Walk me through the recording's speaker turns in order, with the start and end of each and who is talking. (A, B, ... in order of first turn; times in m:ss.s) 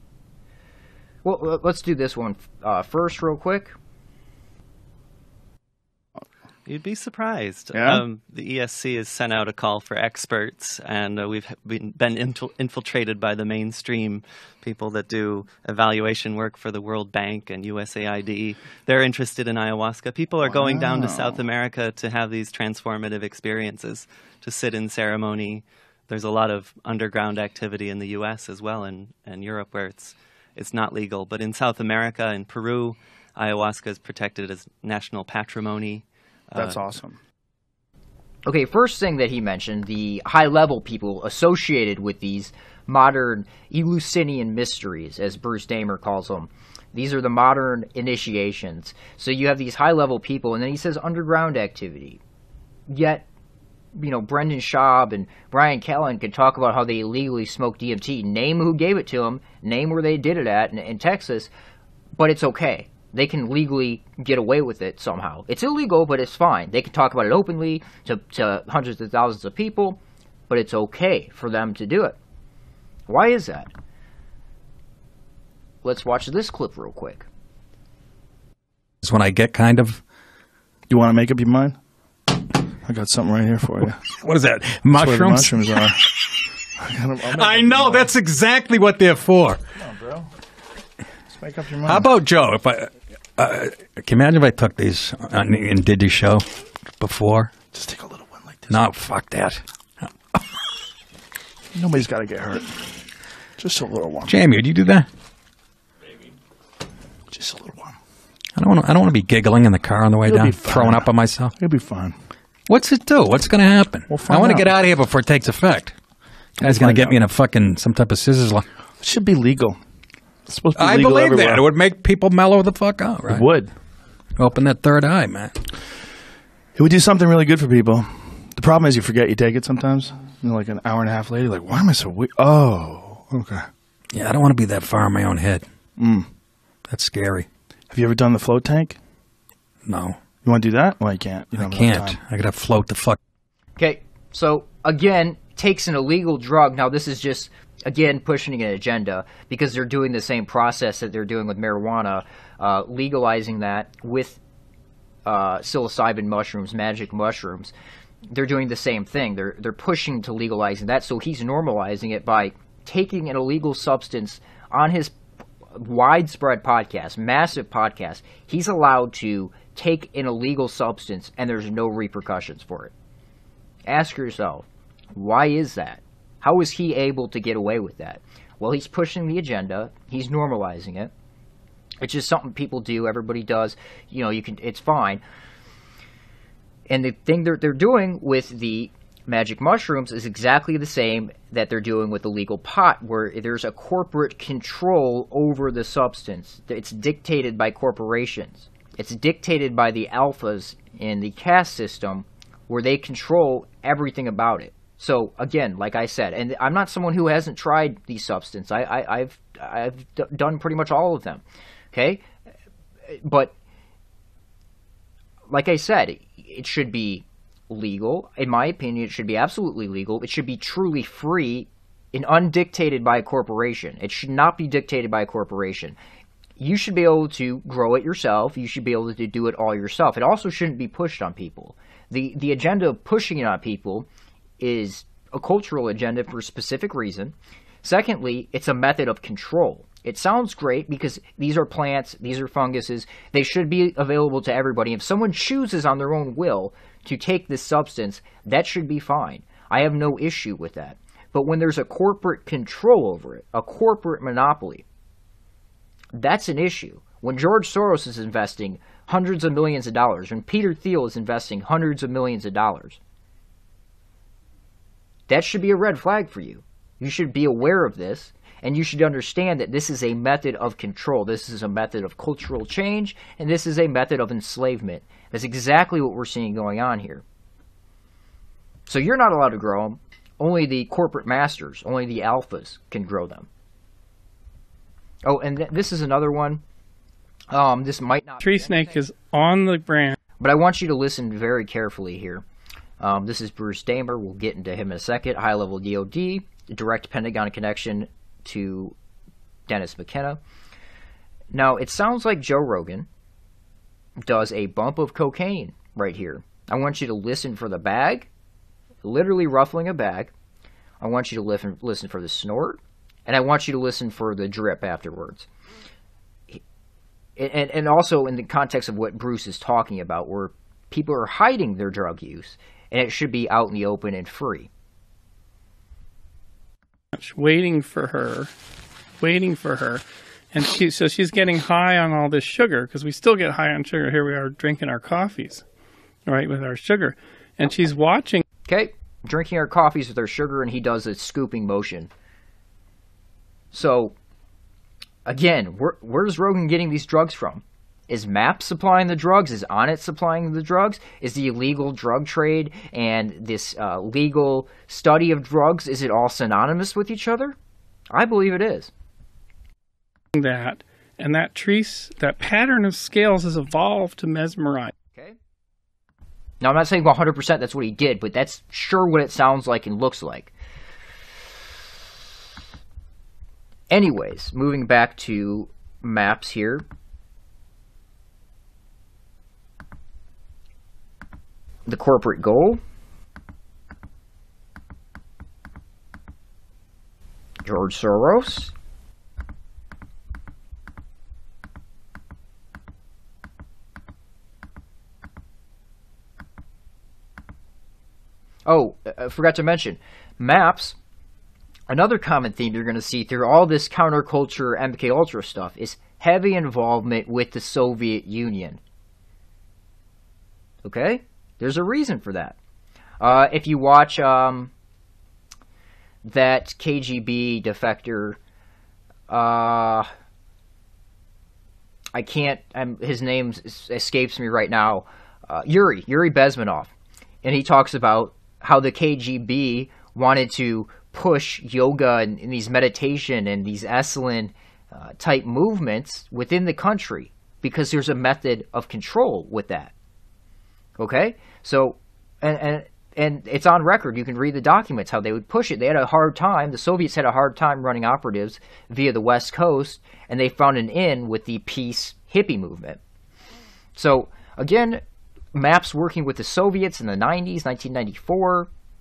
0:01.2-0:03.8 A
0:06.7-0:36.9 B
0:07.7-0:08.0 C
0:20.4-0:21.4 C
0:36.5-0:37.2 C
0:38.5-0:52.2 A
0:52.9-0:53.3 A
0:54.0-1:01.5 A
1:02.2-1:12.2 A
1:13.1-1:13.7 A
1:15.8-1:17.3 A
1:19.0-1:20.0 D
1:20.9-1:21.8 C
1:22.3-1:24.1 C
1:24.2-1:25.9 D
1:24.9-1:26.1 C
1:26.8-1:28.1 C
1:27.3-1:29.6 D
1:29.8-1:30.3 C
1:31.3-1:32.1 C
1:31.8-1:37.5 D
1:37.7-1:38.9 C
1:38.7-1:40.1 D
1:41.7-1:43.0 C
1:43.6-1:44.4 C
1:44.3-1:45.1 D
1:47.3-1:48.0 C
1:48.6-1:51.5 D
1:50.3-1:52.1 C
1:52.7-1:56.0 D
1:54.1-1:54.7 C
1:56.6-1:58.7 D
1:56.6-1:57.2 C
1:59.0-1:59.8 C
2:00.5-2:01.7 C
2:00.8-2:03.5 D
2:03.2-2:03.7 C
2:04.4-2:05.6 D
2:06.8-2:13.6 C
2:14.1-2:15.6 D
2:16.0-2:16.3 C
2:16.9-2:17.5 D
2:17.9-2:19.0 C
2:19.9-2:20.2 D
2:20.4-2:22.2 C
2:21.5-2:23.2 D
2:23.8-2:34.4 A
2:35.2-2:37.7 A
2:38.3-2:45.2 A
2:45.8-2:52.9 A
2:53.9-3:01.1 A
3:02.0-3:05.2 A
3:06.9-3:32.2 A
3:33.1-3:33.5 A
3:35.5-3:46.0 A
3:46.6-3:54.1 A
3:54.6-4:14.8 A
4:16.1-4:23.0 A
4:25.3-4:37.2 A
4:38.9-4:43.5 A
4:45.2-4:46.6 A
4:47.5-4:49.0 A
4:48.4-4:50.2 E
4:50.4-4:52.4 A
4:53.0-4:59.0 A
4:59.7-5:00.4 A
5:01.5-5:03.1 A
5:04.2-5:08.3 A
5:09.0-5:10.3 A
5:11.0-5:15.5 A
5:17.4-5:24.7 A
5:27.1-5:28.5 E
5:29.2-5:35.6 E
5:36.3-5:38.4 E
5:38.7-5:42.1 A
5:43.7-5:44.1 A
5:45.2-5:57.6 A
5:58.1-5:58.9 A
6:00.3-6:04.9 E
6:06.6-6:10.5 A
6:13.9-6:16.8 A
6:21.9-6:22.8 A
6:27.6-6:28.7 A
6:38.7-6:41.0 A
6:41.9-6:48.8 A
6:50.8-6:52.6 A
6:53.2-6:54.7 A
6:56.2-6:58.4 A
6:59.3-7:00.1 A
7:02.1-7:06.9 A
7:07.4-7:19.9 A
7:21.0-7:33.0 A
7:34.0-7:35.0 A
7:35.5-7:38.7 A